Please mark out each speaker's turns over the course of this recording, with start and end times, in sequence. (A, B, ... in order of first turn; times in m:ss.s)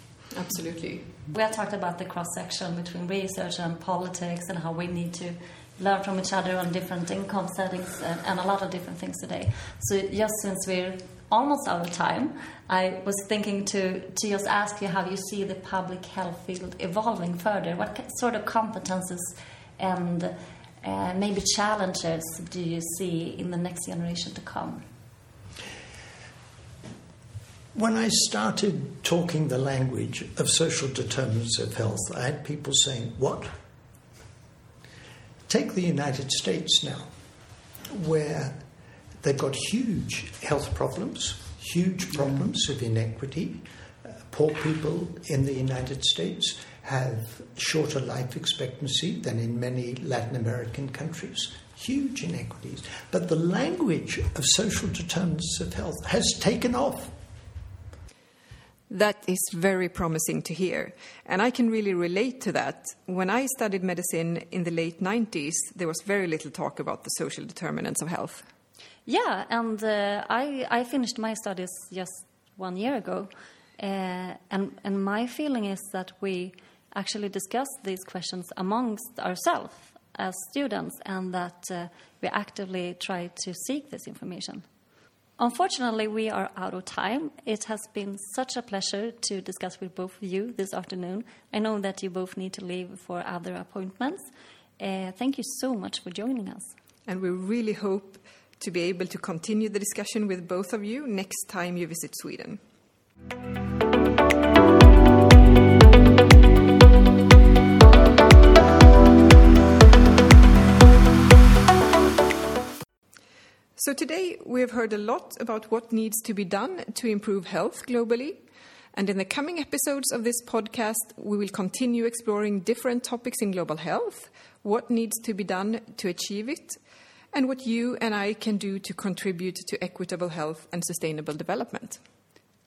0:00.3-0:01.1 A
0:01.3-0:24.8 B
0:27.7-0:33.5 C
0:35.5-0:37.1 C
0:37.9-0:38.6 C
0:39.2-0:57.1 C
0:58.9-1:08.4 A
1:09.0-1:24.6 B
1:25.4-1:34.3 B
1:34.8-1:36.7 B
1:37.1-1:42.6 A
1:53.8-2:06.8 A
2:07.3-2:12.0 A